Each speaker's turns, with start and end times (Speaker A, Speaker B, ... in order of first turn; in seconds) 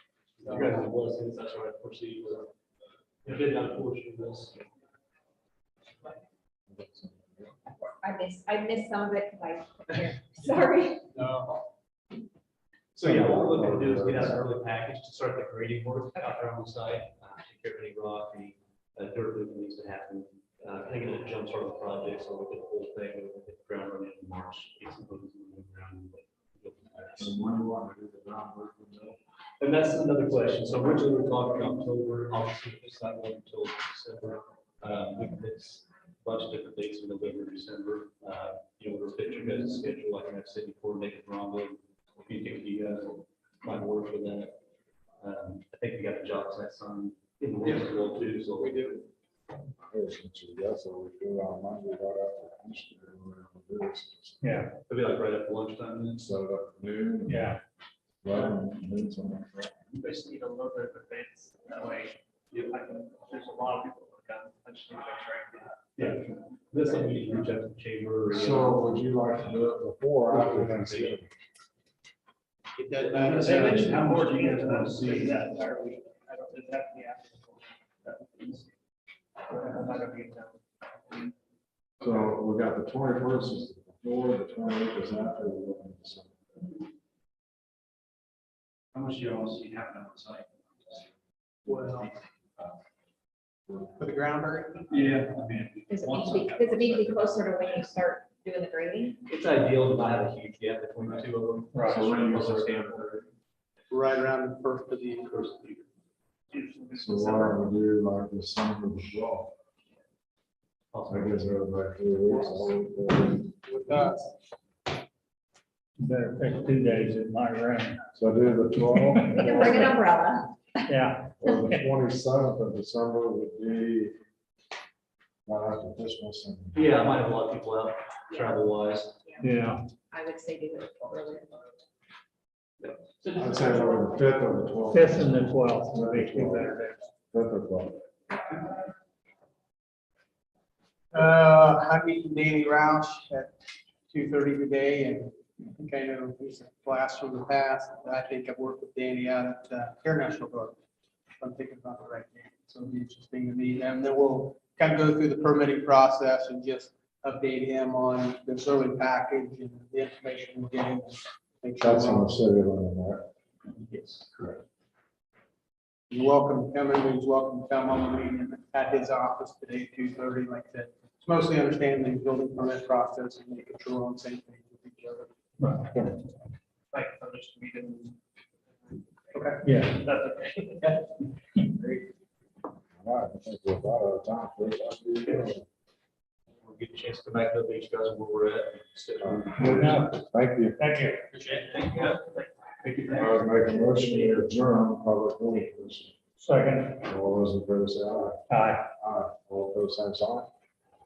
Speaker A: 0.4-2.5, 3.2-4.6, 12.9-27.4, 29.6-44.6, 45.2-48.9, 54.9-56.2, 66.0-68.8, 70.3-71.2, 72.9-75.5, 88.9-91.0, 91.7-92.7, 94.9-98.0, 99.2-103.1, 105.2-105.9, 110.9-111.5, 126.7-129.1, 132.8-133.7, 163.7-164.5, 186.6-189.9, 191.4-192.2, 192.8-193.5
Speaker B: 0.4-0.8, 47.6-49.0, 72.8-74.1, 94.0-95.2, 103.9-105.3, 112.3-112.8, 113.4-114.3, 141.1-143.5, 144.1-150.7, 151.4-162.4, 166.1-175.3
Speaker C: 6.7-7.5, 12.9-14.4, 27.2-29.2, 49.9-54.4, 56.2-57.5, 58.2-59.8, 68.3-71.3, 82.0-86.3, 101.9-103.3, 106.9-109.5, 111.1-113.5, 118.1-119.9, 121.4-124.2, 125.5-126.8, 133.3-136.7, 137.3-138.0, 161.8-163.3, 183.0-185.6, 189.2-190.8, 193.1-196.1, 197.0-198.4, 199.0-200.5
Speaker D: 8.0-11.0, 95.9-99.2, 119.4-120.5, 128.3-128.5, 130.1-131.6
Speaker E: 54.4-54.7, 57.2-57.6, 101.7-102.0, 116.0-118.0, 119.1-120.0, 120.9-121.9, 129.4-129.8, 134.9-137.0, 175.6-176.1, 179.6-180.0, 189.6-190.2, 190.8-191.2, 196.4-197.0, 198.5-198.9
Speaker F: 59.9-65.9, 73.5-78.7, 79.5-80.6, 91.7-92.1, 106.5-107.6, 176.9-178.2, 178.8-181.1, 191.4-194.5